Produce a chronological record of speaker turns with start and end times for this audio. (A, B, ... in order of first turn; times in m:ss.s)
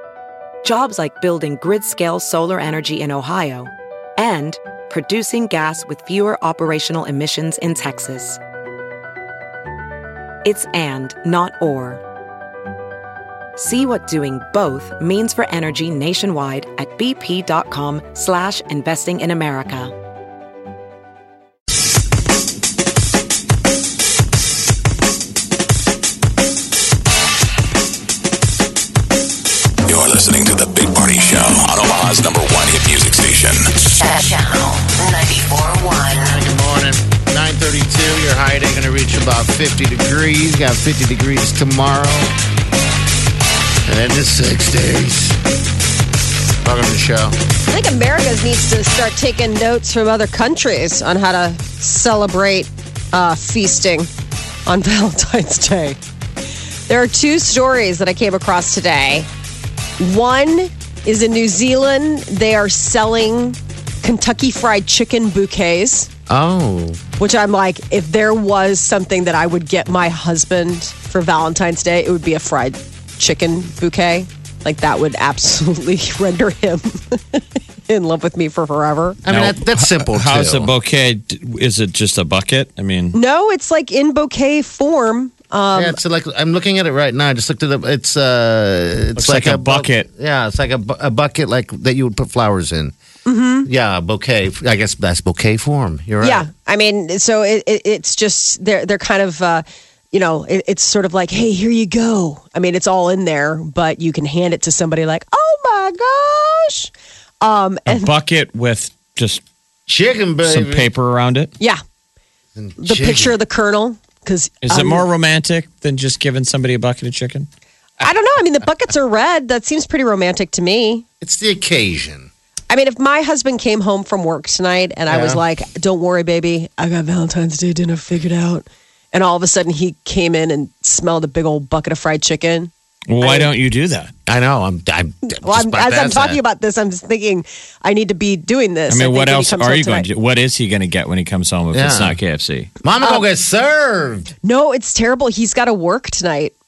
0:00.6-0:08.4 A
0:10.4-0:12.0 A
0:13.6-0:20.0 A
0:29.8-0:33.8 B
0:33.9-0:36.3 C
0:36.2-0:42.3 D
0:43.9-0:45.4 D
0:46.6-0:47.4 D
0:47.7-0:54.1 E
0:54.7-0:56.0 E
0:56.9-0:59.3 E
1:00.0-1:06.1 E
1:06.3-1:07.0 D
1:07.2-1:19.2 E
1:19.2-1:20.7 D
1:19.3-1:23.2 F
1:23.1-1:26.0 E
1:25.7-1:32.9 D
1:29.1-1:30.1 F
1:33.2-1:33.7 E
1:33.6-1:36.5 D
1:36.2-1:48.1 E
1:47.9-1:49.4 F
1:49.9-1:50.9 D
1:50.4-1:51.5 F
1:52.6-1:53.4 D
1:52.8-1:55.1 E
1:54.6-1:57.5 F
1:58.0-2:01.0 E
2:01.2-2:02.3 D
2:02.7-2:13.5 E
2:05.1-2:05.4 D
2:13.1-2:14.1 F
2:14.3-2:16.4 D
2:15.4-2:20.1 E
2:18.9-2:22.7 F
2:21.7-2:22.2 D
2:22.8-2:24.3 D
2:23.0-2:23.2 E
2:24.4-2:26.5 E